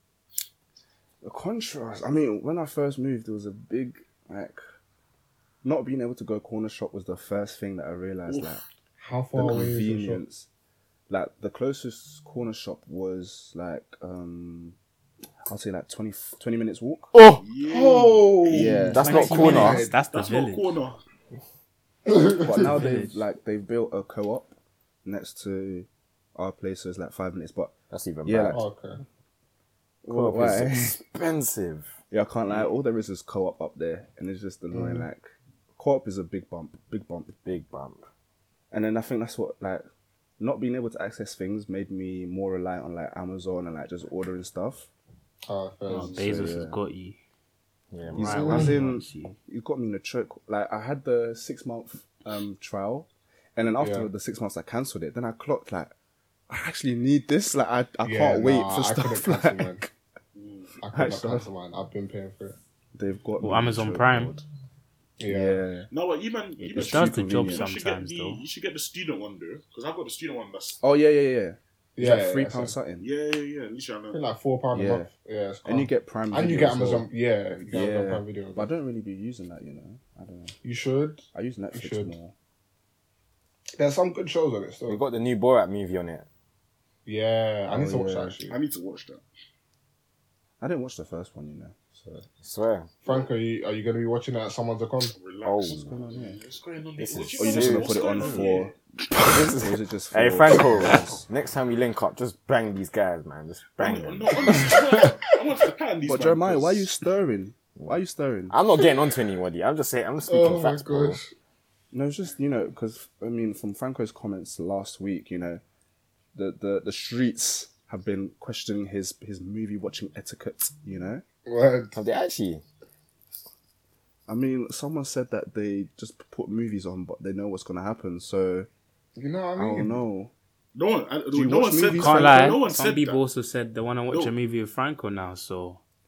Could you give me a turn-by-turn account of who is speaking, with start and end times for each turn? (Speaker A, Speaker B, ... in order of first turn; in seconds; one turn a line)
Speaker A: 1.2-4.6
Speaker A: 5.6-8.6
Speaker B: 8.3-8.6
Speaker C: 9.0-10.2
Speaker A: 9.3-10.5
Speaker A: 11.1-14.8
Speaker A: 15.5-17.1
Speaker D: 17.1-17.4
Speaker B: 17.4-21.0
Speaker C: 17.7-19.9
Speaker A: 18.4-19.2
Speaker D: 18.9-19.8
Speaker E: 19.0-20.7
Speaker C: 22.1-22.7
Speaker A: 22.3-28.6
Speaker E: 22.6-23.2
Speaker D: 27.9-28.6
Speaker C: 28.5-29.0
Speaker A: 30.0-31.0
Speaker D: 30.1-31.9
Speaker A: 32.1-37.3
Speaker C: 34.7-35.1
Speaker D: 37.4-38.0
Speaker A: 38.7-39.8
Speaker A: 40.4-44.9
Speaker C: 45.5-46.2
Speaker E: 45.9-47.2
Speaker A: 45.9-46.8
Speaker D: 47.9-48.7
Speaker E: 48.1-49.4
Speaker A: 48.2-55.9
Speaker C: 48.4-48.7
Speaker C: 53.8-54.1
Speaker A: 56.5-59.9
Speaker C: 58.0-59.8
Speaker B: 60.3-60.7
Speaker C: 60.8-62.6
Speaker A: 60.9-61.5
Speaker A: 62.9-64.4
Speaker E: 63.4-64.4
Speaker C: 65.2-65.6
Speaker A: 65.2-65.9
Speaker B: 65.9-70.8
Speaker A: 66.6-67.7
Speaker E: 66.8-68.4
Speaker A: 70.8-73.1
Speaker C: 72.0-72.8
Speaker B: 73.0-74.2
Speaker C: 74.1-78.7
Speaker A: 74.7-75.1
Speaker A: 75.6-80.6
Speaker C: 80.6-82.2
Speaker A: 81.3-82.3
Speaker C: 83.8-85.0
Speaker D: 84.8-86.3
Speaker C: 87.0-88.6
Speaker A: 87.7-88.4
Speaker B: 88.5-89.2
Speaker A: 90.6-92.2
Speaker D: 92.4-92.9
Speaker C: 93.0-95.1
Speaker B: 93.0-93.3
Speaker B: 95.1-98.7
Speaker D: 95.4-95.9
Speaker A: 95.7-96.4
Speaker D: 97.0-98.4
Speaker A: 97.4-101.2
Speaker D: 99.3-104.7
Speaker B: 103.8-106.9
Speaker C: 104.5-105.2
Speaker A: 106.1-108.6
Speaker D: 108.5-111.2
Speaker C: 110.3-111.3
Speaker A: 111.9-115.6
Speaker A: 116.3-121.2
Speaker C: 121.5-121.9
Speaker D: 121.9-122.6
Speaker A: 124.3-128.7
Speaker C: 129.2-130.0
Speaker A: 129.6-130.3
Speaker B: 130.7-133.2
Speaker A: 131.3-132.6
Speaker E: 131.9-135.8
Speaker B: 134.1-134.3